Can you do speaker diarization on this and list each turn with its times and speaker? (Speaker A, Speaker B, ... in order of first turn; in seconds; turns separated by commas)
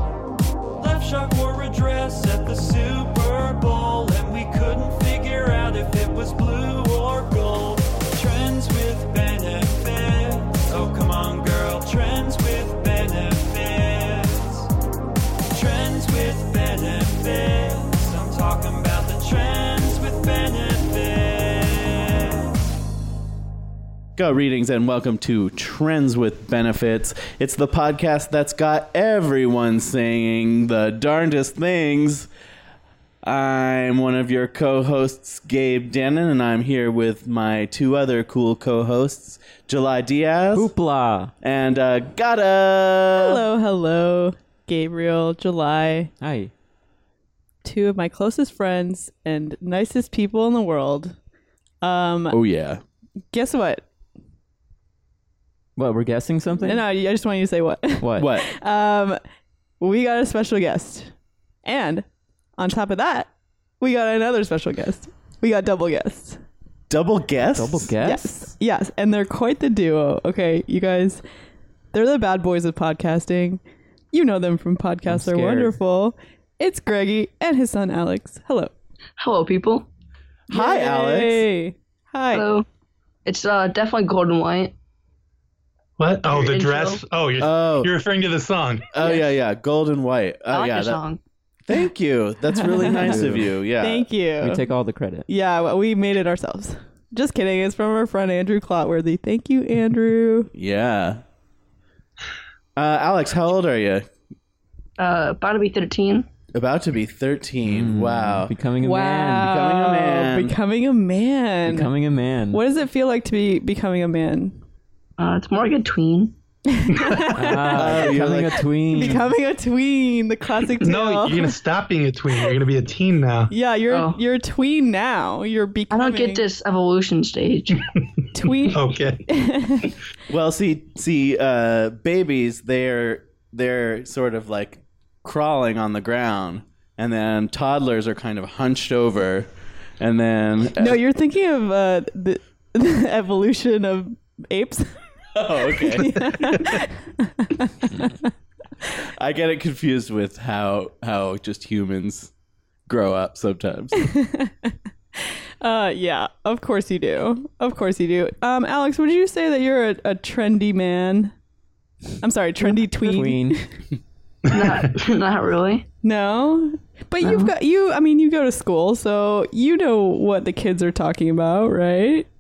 Speaker A: 0.8-14.7, Speaker A: 15.5-22.4, Speaker B: 24.2-32.3, Speaker B: 33.2-40.7, Speaker C: 40.5-41.3, Speaker B: 41.4-43.5, Speaker D: 43.1-46.1, Speaker C: 46.2-46.5, Speaker D: 47.6-51.1, Speaker D: 51.8-52.4, Speaker B: 52.3-52.8, Speaker D: 53.3-53.9, Speaker C: 55.8-56.9, Speaker D: 56.6-59.2, Speaker C: 58.0-58.3, Speaker B: 58.2-58.5, Speaker D: 59.8-61.1, Speaker D: 61.6-62.1, Speaker D: 62.6-66.4, Speaker B: 66.9-67.9, Speaker C: 67.5-68.5, Speaker D: 68.0-71.2, Speaker D: 71.9-73.6, Speaker D: 74.1-78.7, Speaker C: 75.1-75.8, Speaker E: 79.2-79.9, Speaker B: 80.5-81.5, Speaker D: 80.5-82.5, Speaker E: 82.3-82.7, Speaker E: 83.3-84.7, Speaker F: 86.0-88.9, Speaker E: 86.3-87.0, Speaker B: 87.4-87.9, Speaker B: 88.9-91.0, Speaker E: 89.0-89.3, Speaker E: 90.5-91.2, Speaker B: 91.7-94.1, Speaker D: 92.5-93.2, Speaker C: 93.0-93.5, Speaker D: 93.8-94.6, Speaker C: 94.4-95.2, Speaker D: 95.3-100.5, Speaker B: 100.5-101.2, Speaker B: 102.8-104.1, Speaker E: 105.0-106.3, Speaker B: 106.5-108.5, Speaker C: 107.7-109.5, Speaker D: 108.8-111.9, Speaker B: 109.4-110.5, Speaker C: 111.7-112.6, Speaker D: 112.5-114.6, Speaker E: 115.2-116.3, Speaker D: 116.7-118.2, Speaker F: 116.9-117.5, Speaker C: 117.3-119.3, Speaker B: 117.7-118.7, Speaker D: 118.9-121.6, Speaker F: 120.8-123.5, Speaker D: 123.5-126.4, Speaker E: 123.9-124.2, Speaker E: 125.9-127.8, Speaker D: 128.3-129.9, Speaker F: 128.7-129.2, Speaker B: 130.3-141.0, Speaker D: 140.8-145.0, Speaker B: 145.3-146.3, Speaker D: 145.8-148.2, Speaker F: 146.3-146.6, Speaker B: 149.2-152.3, Speaker B: 152.9-154.1, Speaker D: 154.0-154.7, Speaker D: 155.2-161.3, Speaker D: 162.2-163.6, Speaker C: 162.8-163.6, Speaker E: 164.5-165.9, Speaker F: 164.5-164.8, Speaker D: 166.0-172.3, Speaker E: 167.2-167.5